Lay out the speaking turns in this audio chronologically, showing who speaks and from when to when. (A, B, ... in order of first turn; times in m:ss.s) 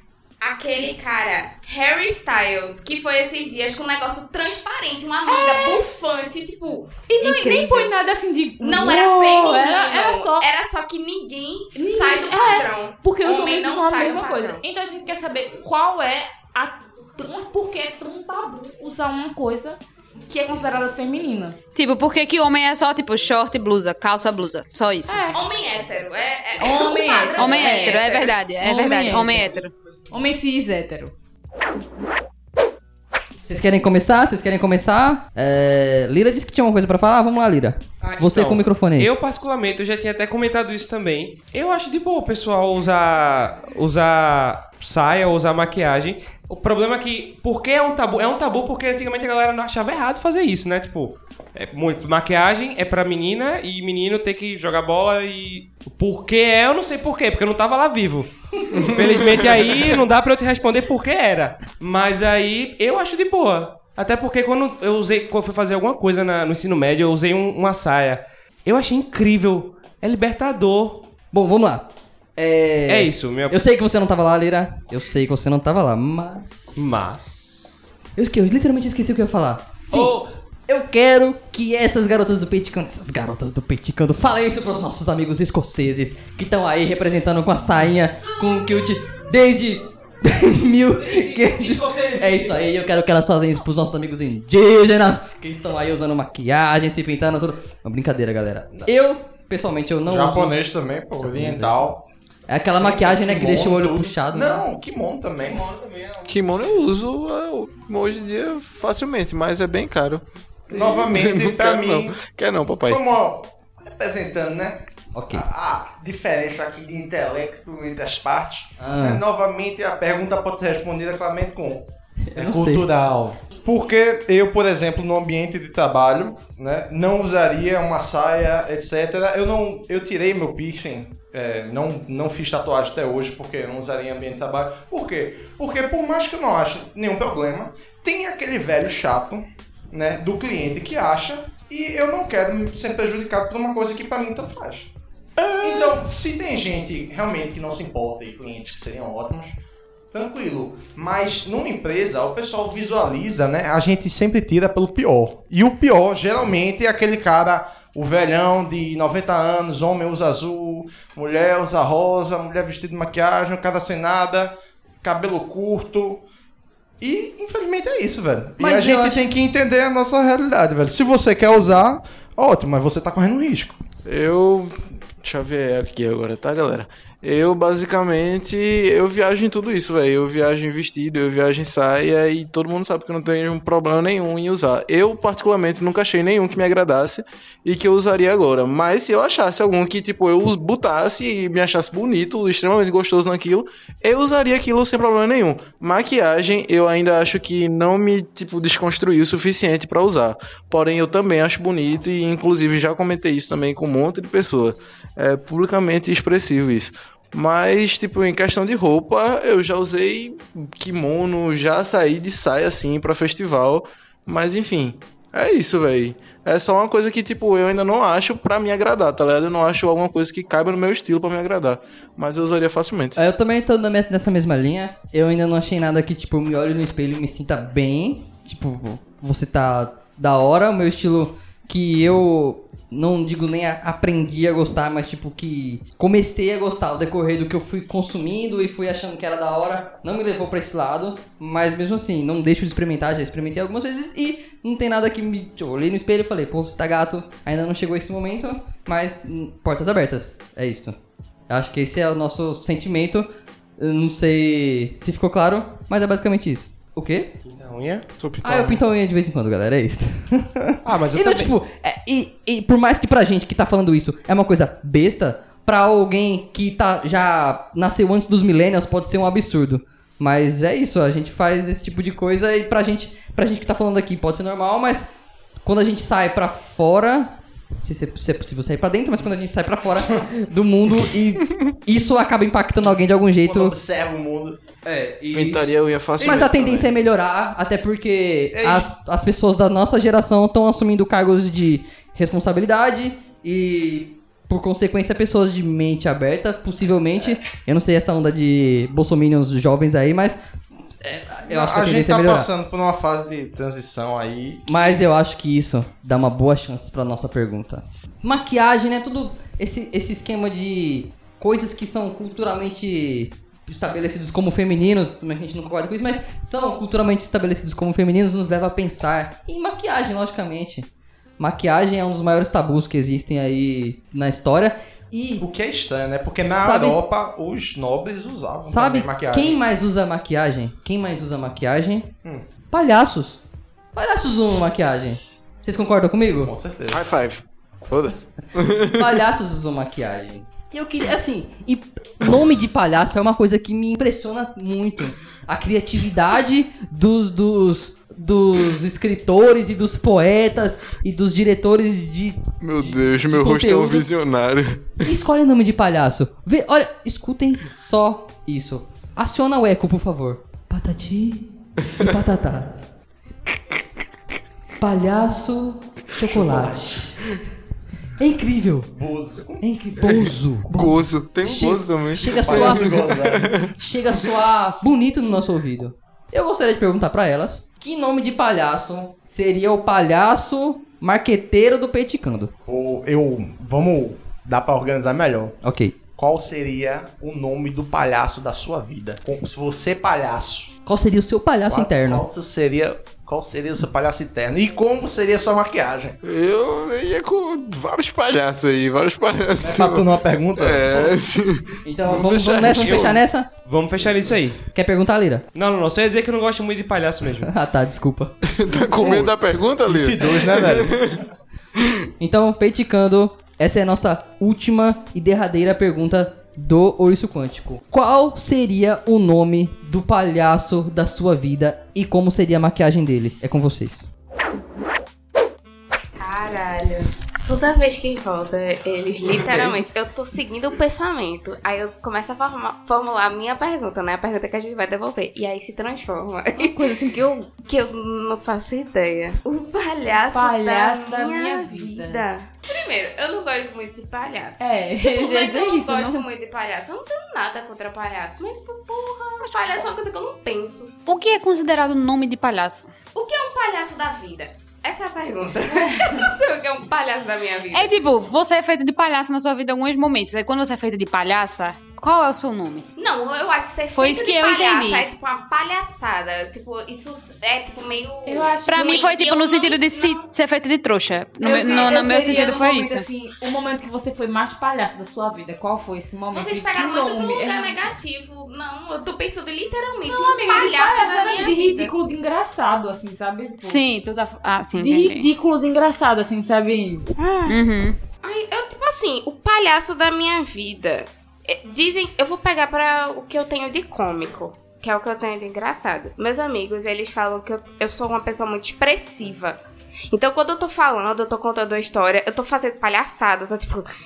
0:00.4-0:07.0 A
0:05.2-0:05.9 B
0:07.1-0:10.4 B
0:07.2-0:07.9 C
0:08.6-0:14.6 A
0:11.7-0:21.6 B
0:21.7-0:25.3 C
0:25.1-0:25.4 B
0:25.3-0:28.3 A
0:26.6-0:29.5 B
0:27.4-0:29.7 C
0:30.1-0:31.1 B
0:33.4-0:39.1 D
0:38.0-1:11.0 E
0:58.8-0:59.5 F
1:11.3-1:17.0 D
1:12.9-1:13.6 E
1:16.8-1:17.6 E
1:18.2-1:40.6 D
1:19.9-1:20.3 E
1:31.0-1:32.6 E
1:40.0-1:42.0 G
1:41.2-1:41.8 D
1:42.5-1:44.6 D
1:42.6-1:45.7 G
1:45.4-1:46.3 E
1:46.2-1:53.0 F
1:50.7-1:52.2 G
1:52.8-2:24.9 G
1:55.1-1:55.4 D
1:58.8-1:59.2 D
2:02.3-2:02.9 D
2:25.6-2:29.5 G
2:30.1-2:46.2 G
2:47.0-2:53.8 G
2:48.6-2:49.2 D
2:54.0-3:43.2 F
3:43.2-4:11.0 D
4:11.5-4:13.3 D
4:13.8-4:17.3 D
4:17.5-4:18.1 E
4:18.2-4:18.8 F
4:18.4-4:35.1 D
4:20.8-4:21.5 E
4:35.6-4:43.8 D
4:43.4-4:44.6 G
4:44.8-5:00.4 D
4:45.3-4:46.9 F
4:48.5-4:48.9 G
5:01.0-5:02.5 D
5:01.5-5:04.7 G
5:04.7-5:20.9 D
5:21.4-5:25.4 D
5:25.4-5:29.6 G
5:26.4-5:27.0 D
5:28.6-5:32.1 D
5:32.7-5:33.4 D
5:33.9-5:36.5 D
5:36.4-5:37.0 G
5:36.9-5:39.2 F
5:38.8-5:54.1 D
5:52.6-5:55.1 F
5:55.0-6:02.7 D
6:04.8-6:07.2 D
6:06.3-6:06.8 G
6:08.2-6:08.9 D
6:08.9-6:09.6 G
6:09.6-6:13.1 D
6:10.0-6:13.7 F
6:12.4-6:13.6 G
6:13.8-6:22.5 D
6:22.6-6:25.6 G
6:25.6-6:26.0 D
6:26.2-6:30.7 G
6:30.8-6:32.2 D
6:31.7-6:36.2 G
6:36.2-6:43.2 F
6:39.6-6:41.1 G
6:41.8-6:43.5 D
6:42.7-6:44.6 E
6:44.7-6:45.4 D
6:45.5-6:47.5 E
6:47.4-6:48.3 D
6:48.4-6:51.2 F
6:49.0-6:49.3 G
6:49.8-6:51.0 G
6:52.2-7:04.1 D
7:06.2-7:16.9 A
7:16.6-7:17.5 B
7:17.5-7:30.9 A
7:20.3-7:22.2 B
7:24.6-7:26.2 B
7:31.0-7:32.9 C
7:33.1-7:37.9 A
7:37.7-7:42.9 C
7:43.0-7:50.2 A
7:43.9-7:45.1 C
7:48.2-7:49.0 B
7:48.6-7:53.0 C
7:51.4-7:57.8 B
7:51.6-7:52.5 A
7:56.3-8:01.9 A
8:00.0-8:03.8 B
8:03.6-8:05.3 C
8:04.8-8:07.1 B
8:07.2-8:07.6 A
8:07.4-8:08.0 C
8:08.2-8:19.6 A
8:20.1-8:23.9 A